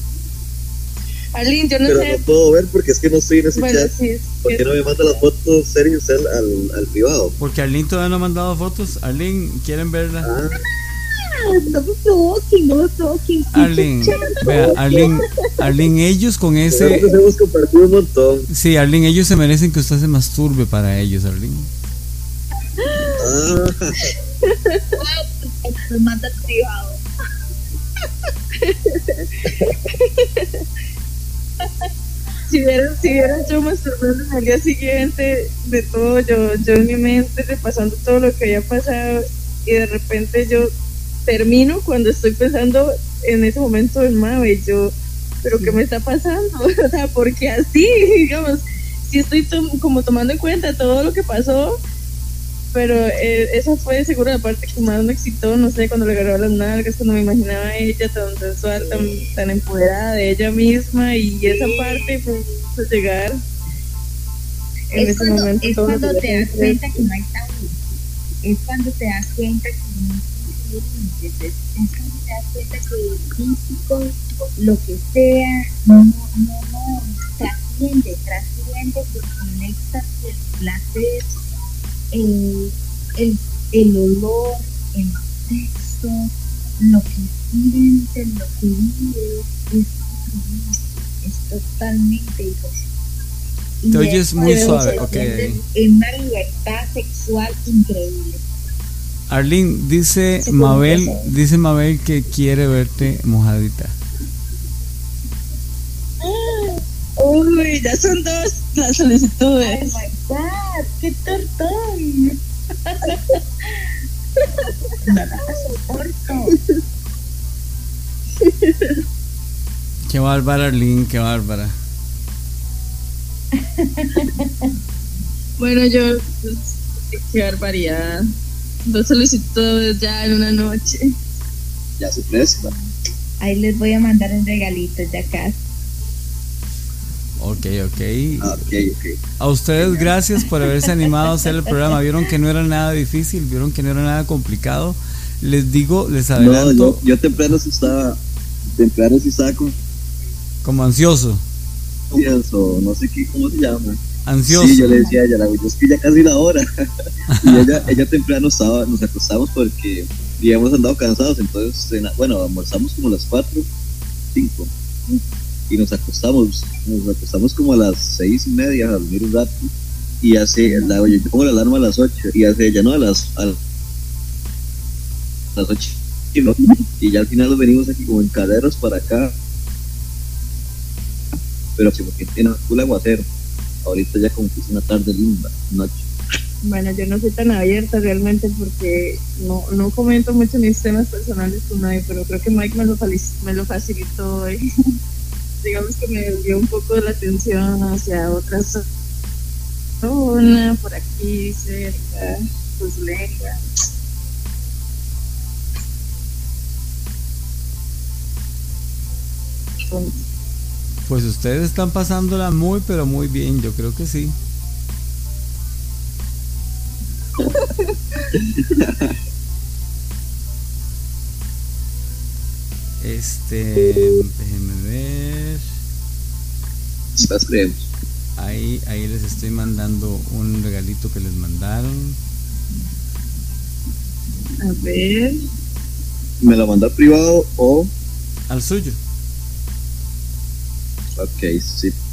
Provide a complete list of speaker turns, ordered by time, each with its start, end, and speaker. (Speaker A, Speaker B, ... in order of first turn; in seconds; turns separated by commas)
Speaker A: 1.4-2.2, Speaker B: 1.9-3.9, Speaker A: 3.6-4.7, Speaker B: 4.4-7.3, Speaker C: 7.4-10.3, Speaker B: 10.2-10.6, Speaker D: 10.6-15.1, Speaker C: 13.5-17.1, Speaker A: 14.1-15.6, Speaker B: 16.7-18.5, Speaker C: 18.5-21.7, Speaker A: 22.8-23.2, Speaker B: 23.2-24.1, Speaker A: 24.4-24.9, Speaker D: 25.0-27.0, Speaker A: 28.6-30.6, Speaker D: 31.6-31.9, Speaker A: 32.5-40.7, Speaker A: 41.3-51.8, Speaker D: 45.5-45.8, Speaker A: 52.7-63.4, Speaker D: 58.9-59.3, Speaker D: 61.4-62.1, Speaker D: 64.9-67.8, Speaker A: 65.0-67.0, Speaker D: 68.4-81.3, Speaker D: 82.1-92.8, Speaker D: 93.8-98.5, Speaker C: 93.9-95.6, Speaker A: 94.4-95.3, Speaker C: 99.3-103.9, Speaker A: 100.5-101.2, Speaker A: 106.2-110.0, Speaker D: 109.6-113.9, Speaker A: 114.4-114.7, Speaker D: 115.0-116.6, Speaker A: 118.4-119.0, Speaker C: 120.1-121.7, Speaker D: 123.5-124.7, Speaker A: 125.6-128.2, Speaker A: 128.9-131.1, Speaker B: 132.0-132.7, Speaker D: 132.6-135.6, Speaker C: 137.4-138.7, Speaker B: 138.4-139.2, Speaker C: 139.4-147.0, Speaker B: 146.4-148.2, Speaker B: 148.8-149.8, Speaker C: 150.6-151.4, Speaker B: 152.1-156.7, Speaker C: 154.3-155.1, Speaker D: 154.9-155.2, Speaker C: 157.3-158.0, Speaker B: 157.4-163.7, Speaker B: 164.3-164.7, Speaker B: 165.7-169.7, Speaker B: 170.2-173.6, Speaker D: 170.7-171.0, Speaker B: 175.6-179.3, Speaker B: 181.8-183.3, Speaker B: 183.8-186.1, Speaker A: 186.6-194.6, Speaker A: 195.6-198.8, Speaker A: 200.0-203.6, Speaker A: 209.9-210.2, Speaker C: 211.1-214.3, Speaker A: 217.4-218.2, Speaker B: 218.3-219.2, Speaker C: 223.0-225.7, Speaker B: 227.2-227.9, Speaker C: 228.4-232.2, Speaker A: 234.6-235.4, Speaker B: 236.4-237.9, Speaker C: 238.5-239.0, Speaker B: 241.2-242.0